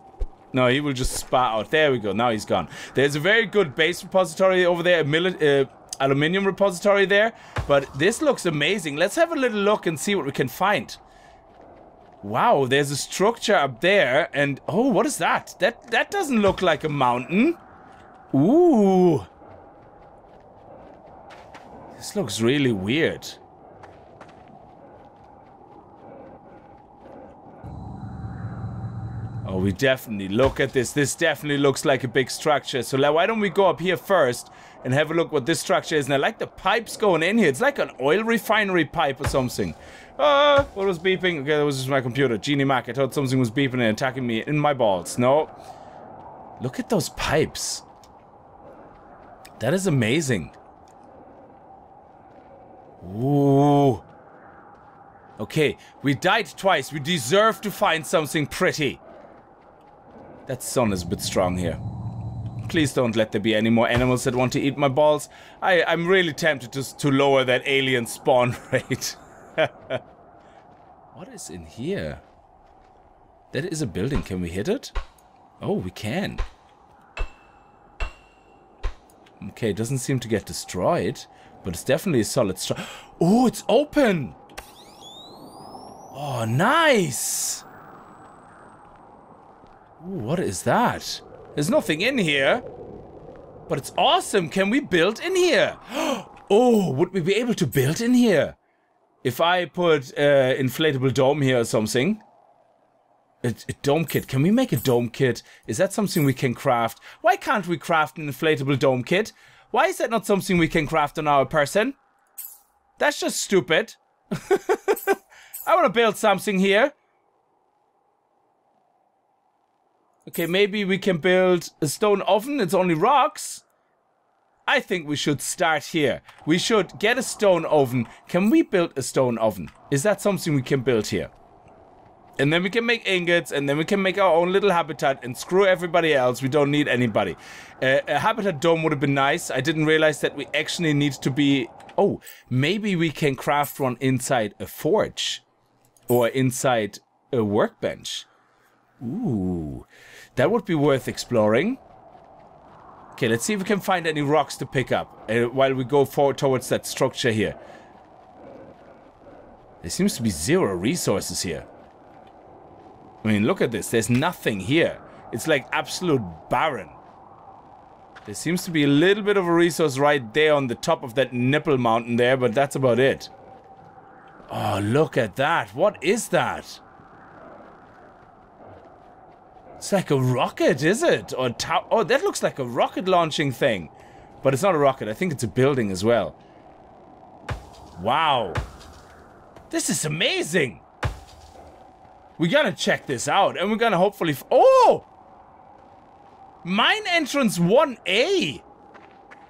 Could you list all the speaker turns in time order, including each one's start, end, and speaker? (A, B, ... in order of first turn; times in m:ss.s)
0:00.5-0:11.0 A
0:12.2-0:17.6 A
0:18.3-0:19.3 A
0:22.0-0:23.4 A
0:29.4-0:45.5 A
0:46.6-0:47.8 A
0:49.6-0:50.6 A
0:53.0-0:54.0 A
0:55.4-0:59.0 A
1:00.5-1:01.8 A
1:02.6-1:10.0 A
1:11.1-1:12.2 A
1:13.5-1:15.0 A
1:15.6-1:16.4 A
1:19.4-1:24.4 A
1:26.1-1:27.6 A
1:30.0-1:32.6 A
1:33.7-1:38.6 A
1:39.2-1:42.2 A
1:43.4-1:52.0 A
1:53.0-1:56.9 A
2:00.3-2:03.6 A
2:04.7-2:11.3 A
2:12.4-2:25.4 A
2:26.1-2:28.3 A
2:29.0-2:31.8 A
2:33.2-2:37.6 A
2:39.8-2:41.7 A
2:43.2-2:47.0 A
2:48.3-2:53.3 A
2:54.5-2:56.8 A
2:59.8-3:06.4 A
3:08.0-3:08.6 A
3:09.7-3:10.8 A
3:12.4-3:15.1 A
3:16.6-3:18.7 A